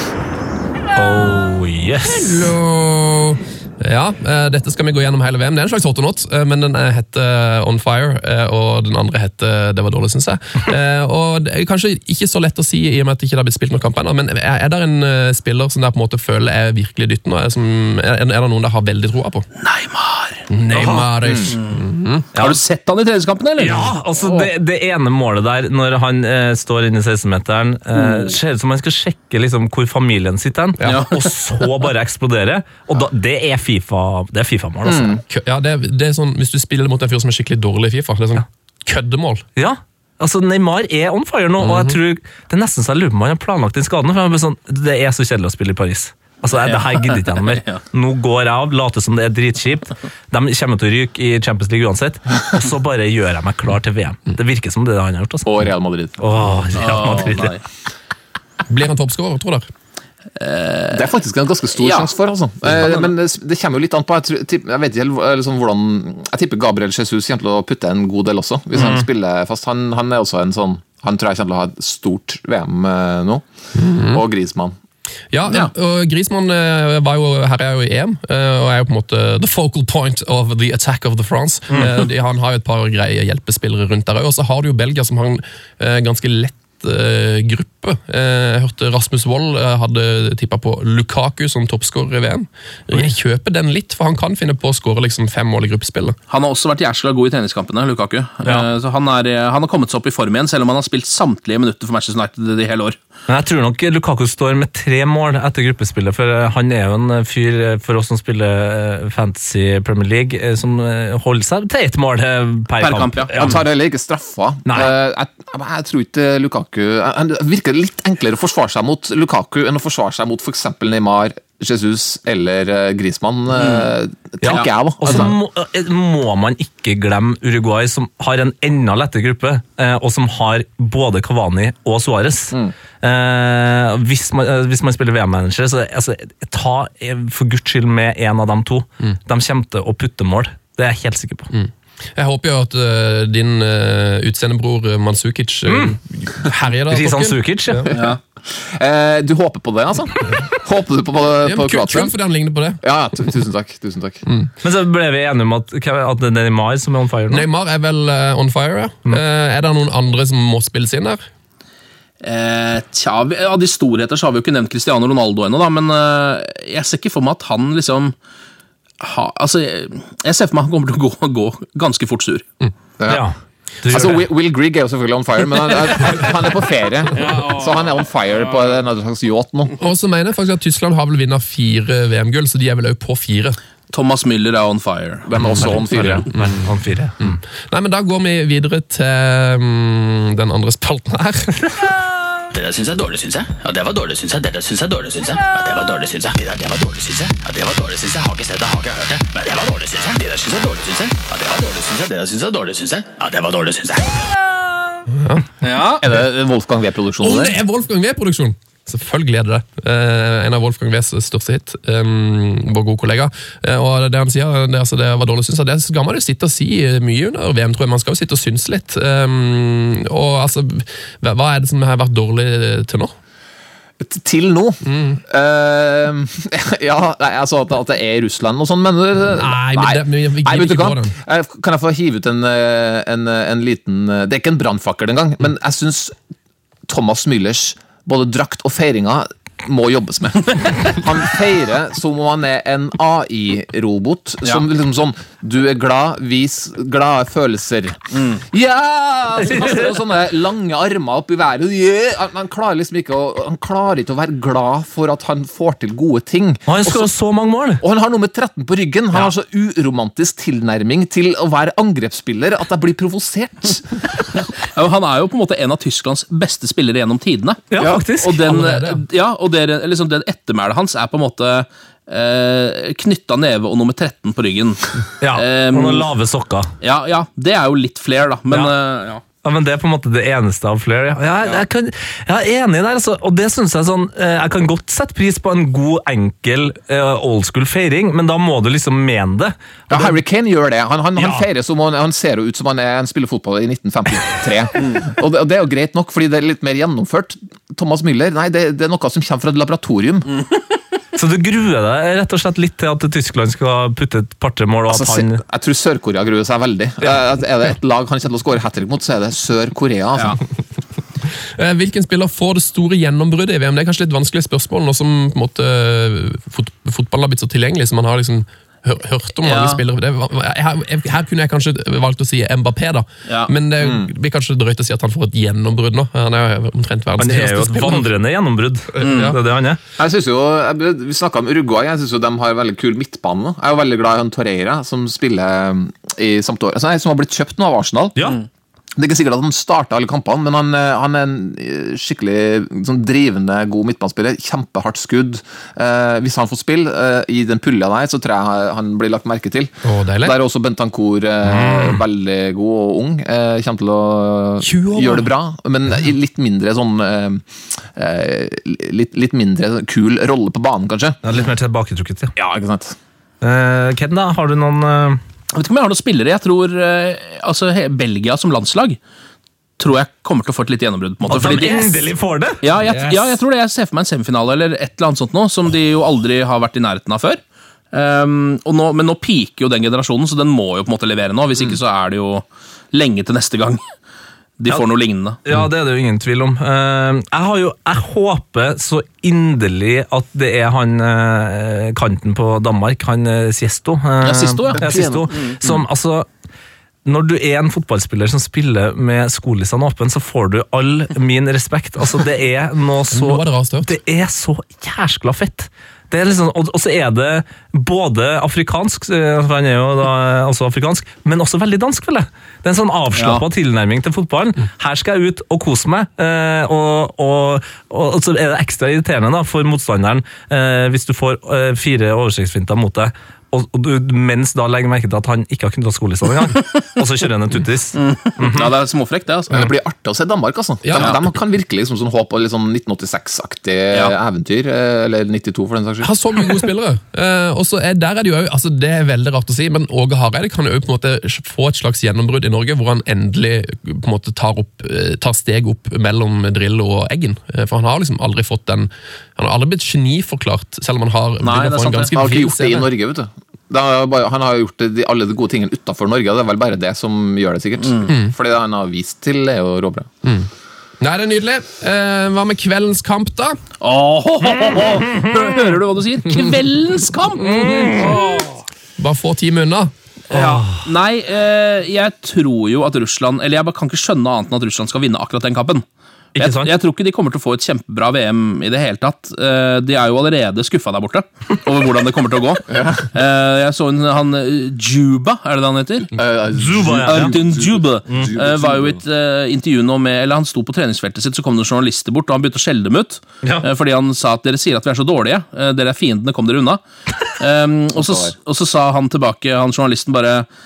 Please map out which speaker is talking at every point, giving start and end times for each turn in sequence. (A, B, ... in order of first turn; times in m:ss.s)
0:00.9-0:02.4 A
0:02.2-0:19.5 B
0:19.6-0:20.4 C
0:20.5-0:22.3 B
0:20.7-0:21.1 A
0:21.2-0:21.5 D
0:21.5-0:21.8 C
0:22.4-0:24.5 C
0:23.6-0:35.2 A
0:27.9-0:28.4 C
0:30.8-0:31.1 B
0:30.8-0:31.3 C
0:34.8-0:35.2 D
0:35.3-0:39.4 B
0:39.6-0:57.6 A
0:41.6-0:42.0 B
0:46.5-0:47.8 C
0:55.4-0:56.2 D
0:56.8-0:57.6 C
0:58.7-0:59.7 B
1:00.4-1:01.1 C
1:00.9-1:13.4 D
1:01.7-1:02.1 C
1:02.7-1:03.1 C
1:08.8-1:09.0 A
1:13.7-1:14.2 B
1:14.1-1:14.7 D
1:15.3-1:36.2 B
1:21.7-1:22.0 A
1:36.3-1:43.0 C
1:43.3-1:53.6 A
1:52.8-1:53.5 C
1:53.3-2:05.3 D
1:54.6-1:54.9 A
2:03.5-2:03.9 C
2:04.4-2:21.5 A
2:21.5-2:27.9 B
2:25.7-2:26.0 A
2:26.9-2:27.8 A
2:27.9-2:32.1 D
2:27.9-2:28.2 C
2:31.4-2:32.8 B
2:32.8-2:34.2 D
2:34.6-2:37.4 A
2:37.3-2:41.2 B
2:42.2-2:48.1 C
2:49.0-2:52.4 C
2:53.0-2:53.2 D
2:53.1-2:54.3 A
2:53.9-2:59.8 D
2:59.8-3:03.6 B
3:03.9-3:05.6 C
3:05.2-3:06.3 D
3:05.4-3:11.9 B
3:05.6-3:07.4 A
3:12.5-3:24.2 E
3:25.1-3:25.4 B
3:25.6-3:26.0 C
3:26.0-3:27.6 D
3:27.2-3:43.1 B
3:44.0-3:56.2 D
3:44.8-3:45.2 B
3:49.3-3:51.2 B
3:56.9-4:17.1 D
4:08.1-4:08.4 C
4:09.5-4:09.8 A
4:16.7-4:17.8 A
4:17.8-4:24.0 D
4:24.7-4:36.1 C
4:27.7-4:28.4 A
4:28.4-4:29.0 B
4:35.2-4:36.7 A
4:36.8-4:39.2 C
4:39.4-4:50.2 A
4:49.9-5:00.3 D
4:51.2-4:51.5 A
5:01.1-5:05.4 A
5:04.9-5:10.4 D
5:11.6-5:28.1 B
5:19.4-5:19.8 C
5:23.2-5:23.5 C
5:23.8-5:24.0 D
5:27.2-5:29.8 A
5:29.0-5:29.4 B
5:29.0-5:29.4 C
5:30.0-5:38.2 D
5:39.0-6:01.2 D
5:49.8-5:50.4 B
5:51.4-5:52.0 A
5:54.6-5:55.3 B
6:01.2-6:02.3 A
6:02.4-6:03.0 D
6:03.4-6:05.2 A
6:05.5-6:09.0 C
6:09.8-6:12.1 C
6:11.3-6:12.6 A
6:12.6-6:17.4 C
6:12.9-6:13.2 B
6:17.9-6:23.8 C
6:24.6-6:25.4 C
6:25.4-6:36.3 A
6:34.2-6:35.5 C
6:34.7-6:35.8 D
6:37.0-7:08.7 A
6:43.1-6:43.9 B
6:53.1-6:53.4 C
7:08.0-7:09.7 C
7:09.5-7:16.1 D
7:10.8-7:11.1 B
7:13.9-7:14.2 C
7:16.0-7:32.9 B
7:31.4-7:32.1 C
7:32.1-7:40.1 D
7:38.0-7:38.3 B
7:40.2-7:40.5 B
7:41.0-7:43.6 B
7:43.8-7:48.6 C
7:47.4-7:48.1 A
7:47.8-7:48.2 B
7:49.0-7:49.9 B
7:50.3-7:50.9 A
7:50.3-7:55.8 C
7:56.3-7:56.7 A
7:56.4-8:06.2 C
8:02.7-8:03.1 D
8:06.2-8:09.0 D
8:06.5-8:07.4 A
8:07.0-8:16.8 C
8:17.4-8:20.4 C
8:18.0-8:18.3 D